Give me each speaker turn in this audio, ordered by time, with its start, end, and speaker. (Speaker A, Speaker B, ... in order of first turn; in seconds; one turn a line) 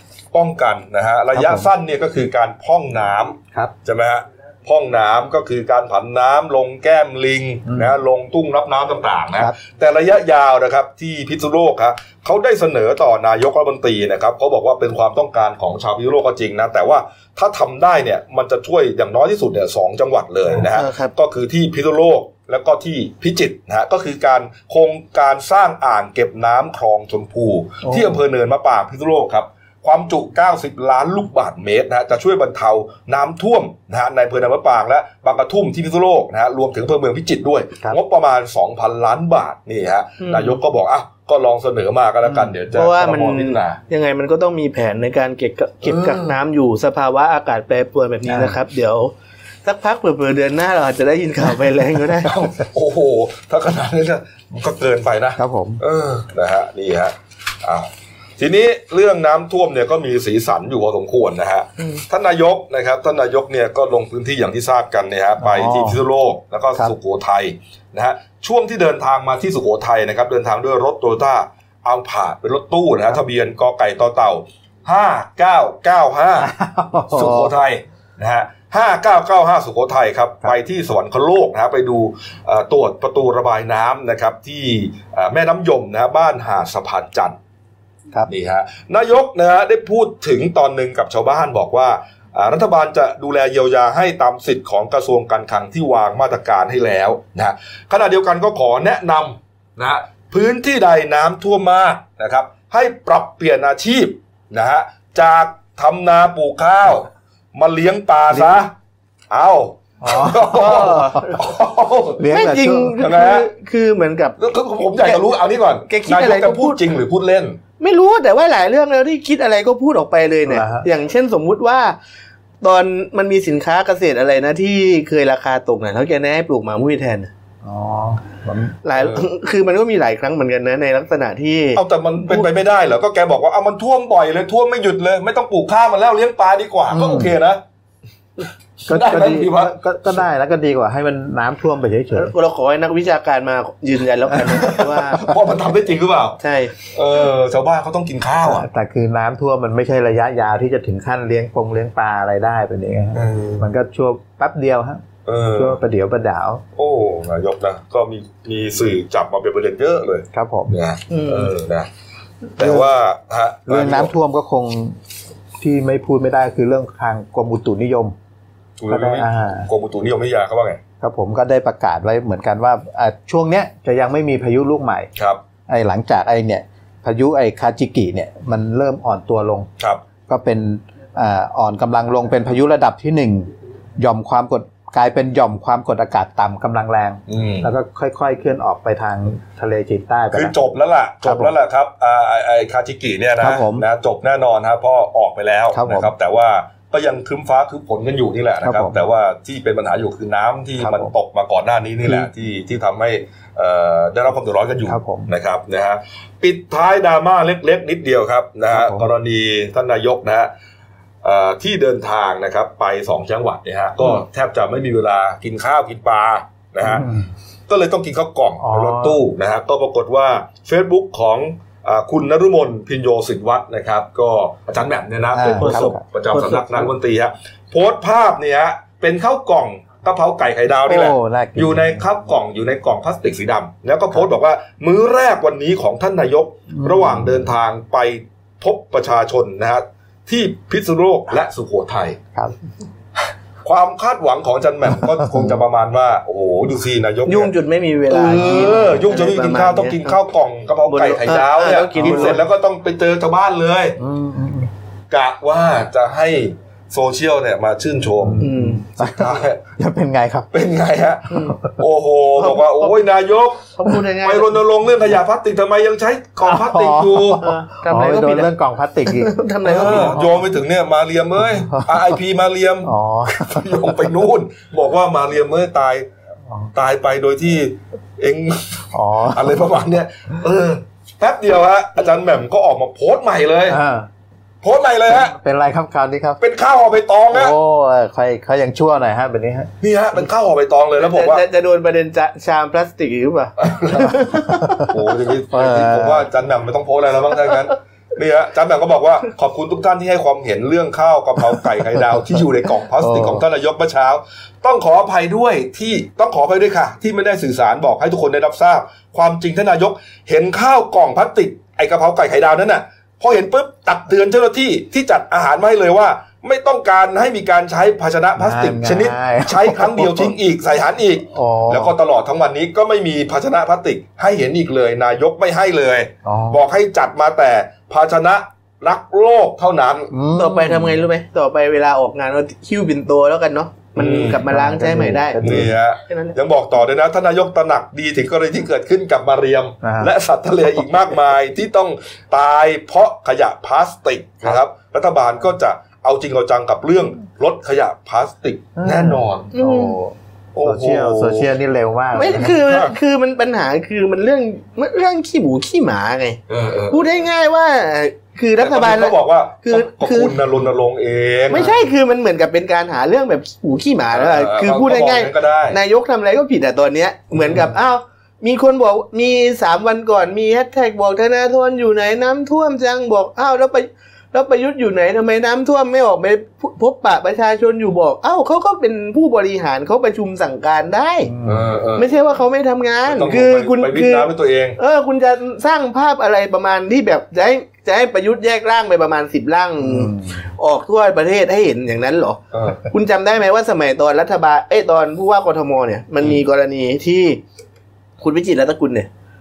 Speaker A: 0.3-43.8
Speaker B: 1.3-1.7
Speaker B: 7.7-7.9
Speaker C: 20.6-21.1
Speaker B: 27.8-28.2
Speaker C: 40.2-40.6
Speaker B: 42.3-42.5
Speaker C: 42.7-49.1
Speaker A: 45.8-46.4
Speaker B: 48.3-48.6
Speaker C: 49.6-52.5
Speaker A: 52.2-76.5
Speaker B: 55.4-55.8
Speaker B: 65.4-66.0
Speaker B: 76.4-77.5
Speaker A: 77.1-87.4
Speaker A: 88.3-108.7
Speaker B: 108.3-108.6
Speaker A: 109.3-112.3
Speaker B: 110.0-111.2
Speaker C: 110.5-111.4
Speaker B: 112.2-113.0
Speaker C: 112.3-114.4
Speaker A: 113.0-113.5
Speaker A: 114.4-117.6
Speaker C: 115.9-116.8
Speaker C: 117.8-122.0
Speaker B: 120.5-120.9
Speaker C: 122.6-127.3
Speaker B: 127.6-128.8
Speaker C: 128.8-131.8
Speaker A: 128.9-129.3
Speaker A: 131.8-137.6
Speaker B: 136.9-137.3
Speaker B: 138.8-142.3
Speaker A: 138.9-139.8
Speaker C: 142.2-145.3
Speaker A: 144.6-148.7
Speaker C: 146.4-146.8
Speaker B: 148.4-155.0
Speaker A: 153.2-153.7
Speaker A: 155.3-155.8
Speaker B: 155.6-156.6
Speaker A: 156.8-161.9
Speaker B: 160.3-160.7
Speaker C: 161.1-161.5
Speaker A: 162.6-164.1
Speaker B: 162.6-162.9
Speaker B: 163.7-165.0
Speaker B: 165.6-168.2
Speaker A: 168.8-170.8
Speaker B: 168.9-169.7
Speaker B: 171.0-175.1
Speaker A: 175.2-175.4
Speaker B: 175.7-179.7
Speaker B: 180.3-190.6
Speaker A: 187.3-187.7
Speaker A: 190.3-210.5
Speaker B: 191.2-191.5
Speaker B: 193.4-193.9
Speaker B: 195.7-196.1
Speaker B: 198.6-199.0
Speaker B: 200.8-201.1
Speaker B: 204.9-205.3
Speaker B: 208.7-209.1
Speaker A: 211.2-217.1
Speaker B: 216.8-217.3
Speaker A: 217.7-242.2
Speaker B: 218.6-219.2
Speaker B: 225.3-226.9
Speaker B: 230.9-232.2
Speaker B: 236.7-237.5
Speaker A: 243.6-247.5
Speaker B: 245.0-245.6
Speaker C: 247.3-250.2
Speaker A: 248.1-254.0
Speaker B: 248.3-249.0
Speaker C: 250.9-252.4
Speaker B: 251.9-252.4
Speaker B: 254.0-254.7
Speaker A: 255.1-259.6
Speaker B: 258.2-260.5
Speaker C: 258.4-258.8
Speaker A: 260.5-267.5
Speaker C: 261.3-261.6
Speaker C: 262.4-263.0
Speaker C: 263.8-264.6
Speaker B: 266.4-270.5
Speaker C: 267.4-268.5
Speaker C: 269.1-270.2
Speaker A: 269.7-276.1
Speaker B: 271.4-272.2
Speaker B: 272.9-274.1
Speaker A: 276.7-283.8
Speaker B: 278.9-279.7
Speaker B: 283.7-284.1
Speaker A: 284.6-285.4
Speaker B: 285.1-286.4
Speaker A: 286.4-287.6
Speaker B: 287.3-289.7
Speaker A: 289.8-291.4
Speaker C: 291.0-294.9
Speaker A: 293.6-294.2
Speaker B: 294.6-294.9
Speaker A: 294.9-330.1
Speaker B: 295.5-296.3
Speaker B: 302.0-302.4
Speaker B: 303.0-303.4
Speaker B: 318.4-320.4
Speaker B: 321.3-322.0
Speaker B: 326.2-326.6
Speaker B: 330.1-331.0
Speaker C: 330.3-336.4
Speaker A: 333.9-334.4
Speaker B: 334.4-335.7
Speaker A: 335.4-349.5
Speaker B: 339.8-340.1
Speaker B: 348.8-352.6
Speaker C: 349.5-350.0
Speaker A: 350.5-351.5
Speaker C: 352.1-356.4
Speaker A: 352.3-352.9
Speaker A: 356.5-357.1
Speaker C: 356.9-360.4
Speaker A: 358.6-361.7
Speaker C: 361.5-381.3
Speaker B: 361.5-361.9
Speaker A: 364.1-365.8
Speaker B: 381.3-381.7
Speaker A: 381.4-382.2
Speaker C: 382.0-397.4
Speaker A: 383.1-384.8
Speaker B: 389.8-390.4
Speaker A: 392.5-392.8
Speaker C: 398.2-399.1